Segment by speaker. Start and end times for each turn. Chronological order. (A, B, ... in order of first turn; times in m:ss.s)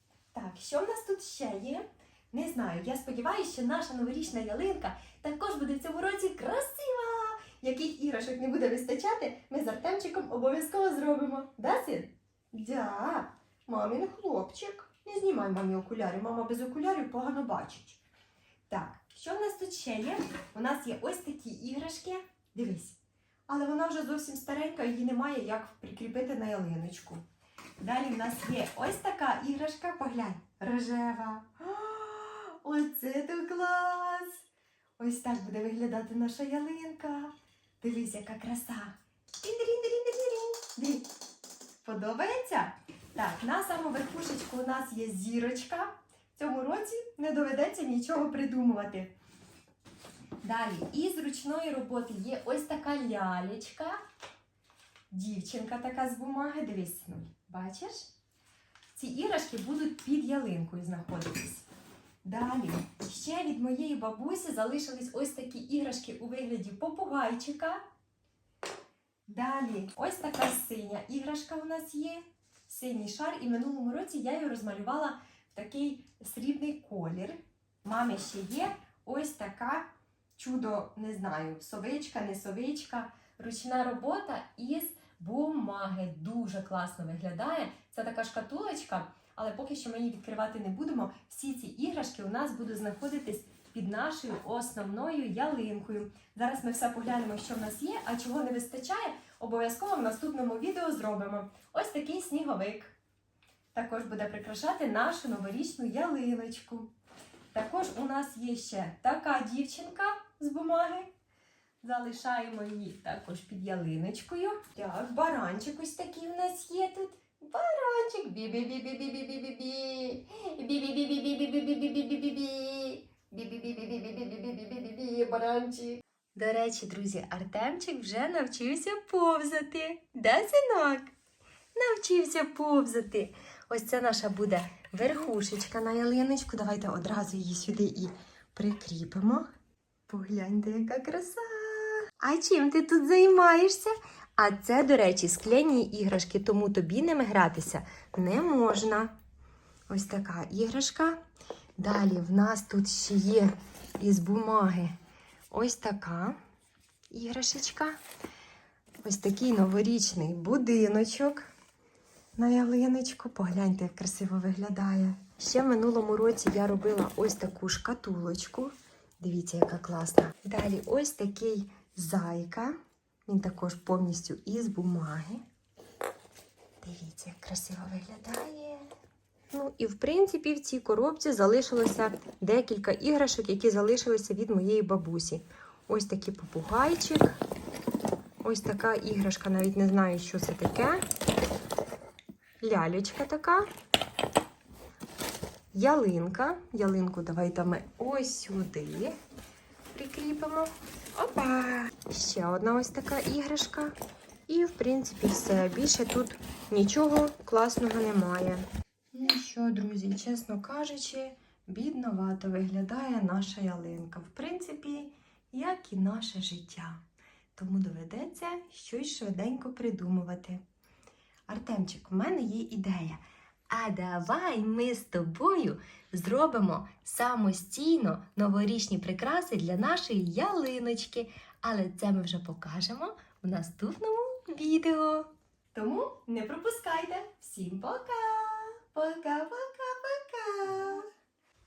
0:00.3-0:18.0 A
0:18.7-0:23.0 A
0:23.5-0:27.2 A
0:27.8-0:34.4 A
0:35.0-0:41.1 A
0:41.8-0:49.1 A
0:50.4-0:54.0 A
0:55.1-0:58.1 A
0:58.9-1:01.6 A
1:02.2-1:07.8 A
1:09.3-1:42.9 A
1:43.7-1:46.9 A
1:47.5-1:51.1 A
1:51.8-2:11.1 A
2:11.7-2:19.4 A
2:20.1-2:29.1 A
2:29.9-2:31.2 A
2:31.8-2:34.9 A
2:35.5-2:36.4 A
2:37.1-2:38.0 A
2:39.0-2:41.5 A
2:42.4-2:52.8 A
2:53.3-2:55.4 A
2:56.8-2:58.9 A
2:59.5-3:07.4 A
3:08.4-3:11.0 A
3:12.6-3:13.7 A
3:15.7-3:19.1 A
3:19.9-3:24.0 A
3:24.5-3:37.0 A
3:37.6-3:40.6 A
3:41.5-4:01.1 A